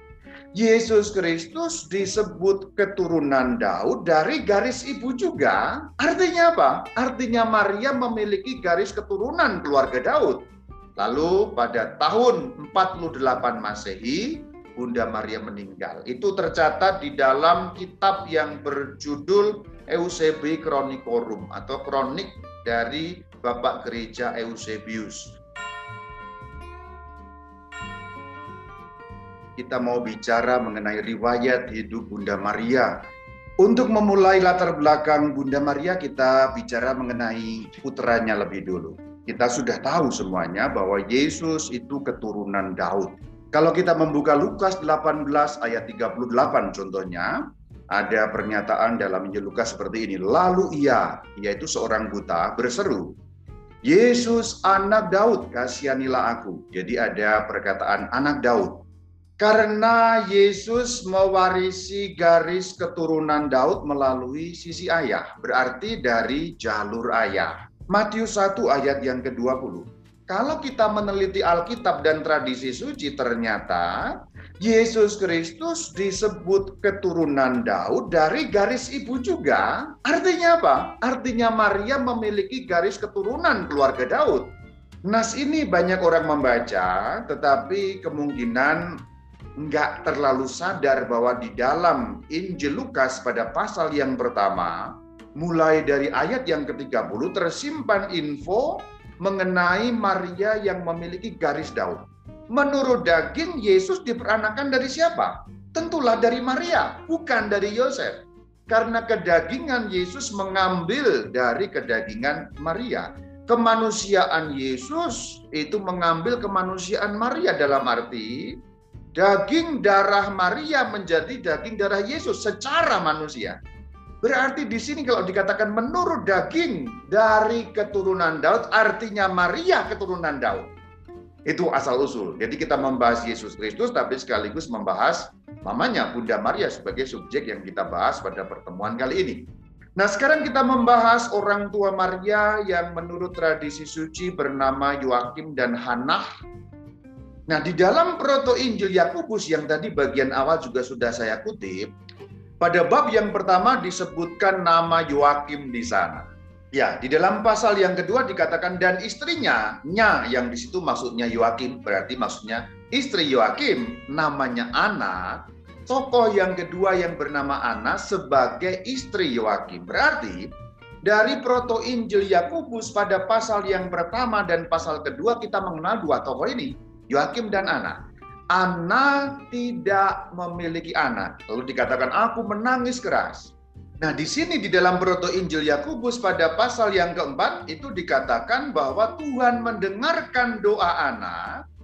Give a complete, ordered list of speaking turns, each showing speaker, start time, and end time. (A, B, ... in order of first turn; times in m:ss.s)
0:00.6-0:10.5 A
0:11.0-0:25.3 A
0:29.6-0:33.0 A
0:33.6-0:47.4 A
0:47.9-0:53.1 A
0:53.9-0:58.8 A
0:59.4-1:24.5 A
1:25.0-1:29.0 A
1:29.6-1:58.6 A
1:59.2-2:03.6 A
2:04.2-2:10.7 A
2:11.5-2:19.5 A
2:20.0-2:26.3 A
2:27.5-2:31.9 A
2:32.6-2:50.5 A
2:51.0-2:58.0 A
2:58.5-3:11.6 A